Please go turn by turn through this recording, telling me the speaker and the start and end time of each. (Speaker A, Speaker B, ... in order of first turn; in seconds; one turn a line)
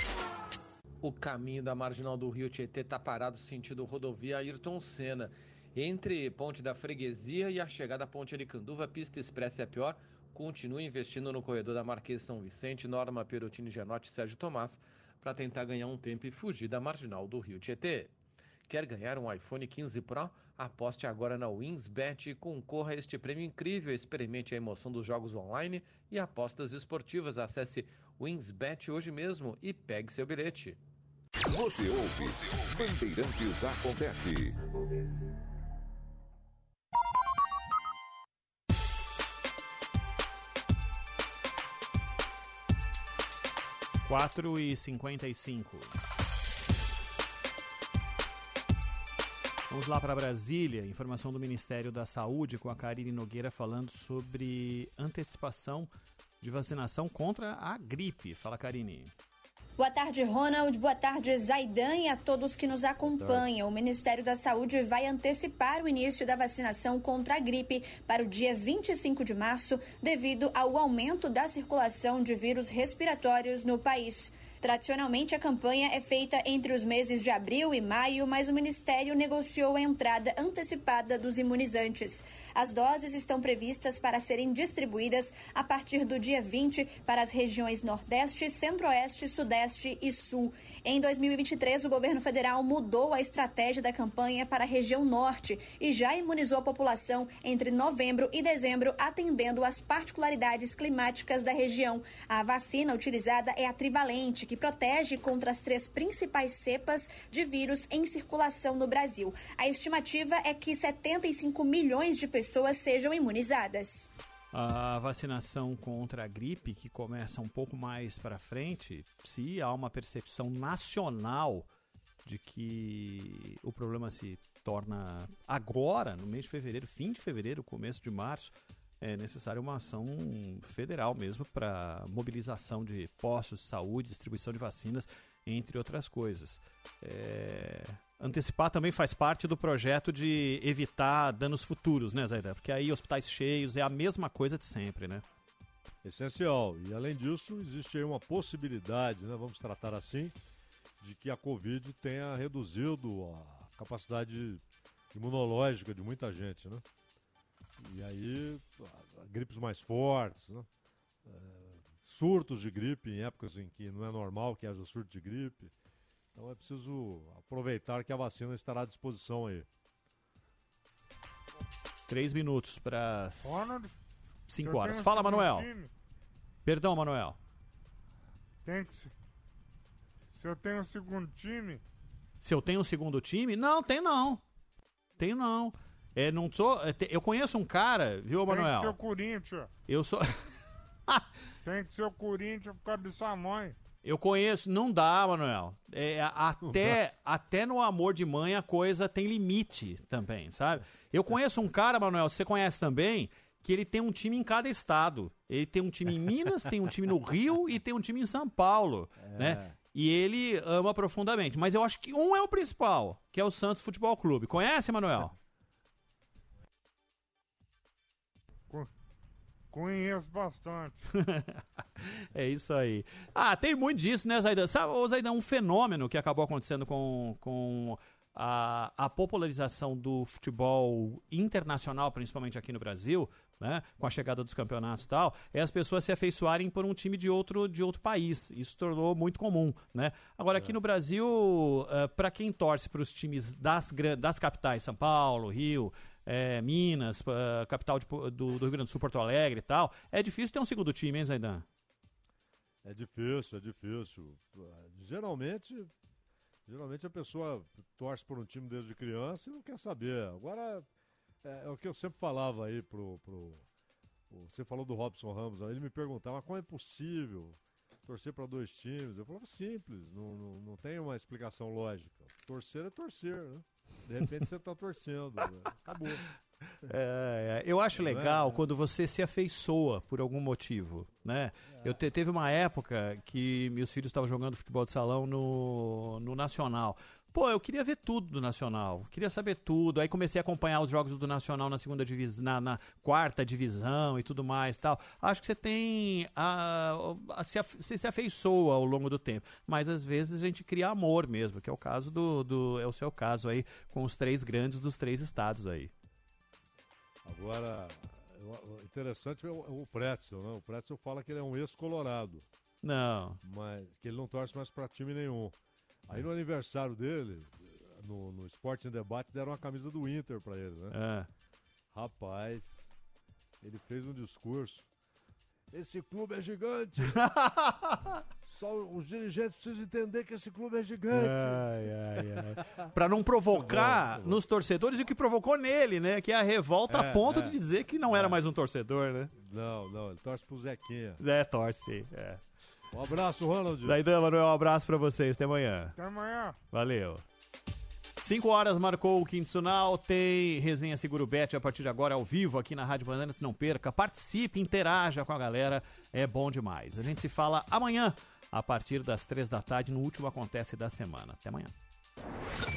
Speaker A: 1.0-18.1
Speaker A: 18.7-30.8
Speaker B: 31.4-34.5
Speaker C: 44.0-46.0
Speaker C: 49.7-59.1
Speaker D: 59.8-114.1
Speaker E: 63.0-63.5
Speaker C: 114.5-121.7
Speaker C: 122.2-145.2
Speaker E: 146.0-150.3
Speaker E: 151.0-154.6
Speaker E: 155.1-156.8
Speaker E: 157.8-160.7
Speaker E: 161.2-165.7
Speaker E: 166.3-169.7
Speaker C: 172.1-173.7
Speaker F: 173.4-173.9
Speaker C: 174.5-175.7
Speaker F: 174.6-175.9
Speaker C: 176.6-177.4
Speaker F: 178.6-179.1
Speaker F: 180.3-181.8
Speaker C: 182.4-184.4
Speaker C: 185.2-188.9
Speaker F: 188.4-189.7
Speaker C: 189.9-190.3
Speaker F: 191.6-193.8
Speaker C: 194.0-215.3
Speaker E: 196.7-196.9
Speaker E: 209.2-209.8
Speaker F: 219.7-221.0
Speaker C: 221.2-251.7
Speaker E: 252.8-255.9
Speaker E: 256.7-260.8
Speaker E: 261.4-263.6
Speaker E: 264.3-276.3
Speaker C: 276.9-305.9
Speaker E: 277.9-278.7
Speaker E: 307.2-312.4
Speaker C: 312.8-313.4
Speaker E: 313.4-315.5
Speaker E: 316.1-320.9
Speaker C: 320.9-321.3
Speaker E: 321.9-322.9
Speaker E: 323.6-324.8
Speaker E: 325.7-327.3
Speaker C: 327.1-328.0
Speaker E: 328.5-332.9
Speaker C: 331.1-339.3
Speaker E: 333.5-334.4
Speaker E: 336.9-338.4
Speaker E: 339.4-341.2
Speaker C: 341.2-342.4
Speaker E: 342.9-344.0
Speaker C: 343.9-345.9
Speaker F: 346.0-346.6
Speaker C: 346.7-347.2
Speaker C: 348.2-361.7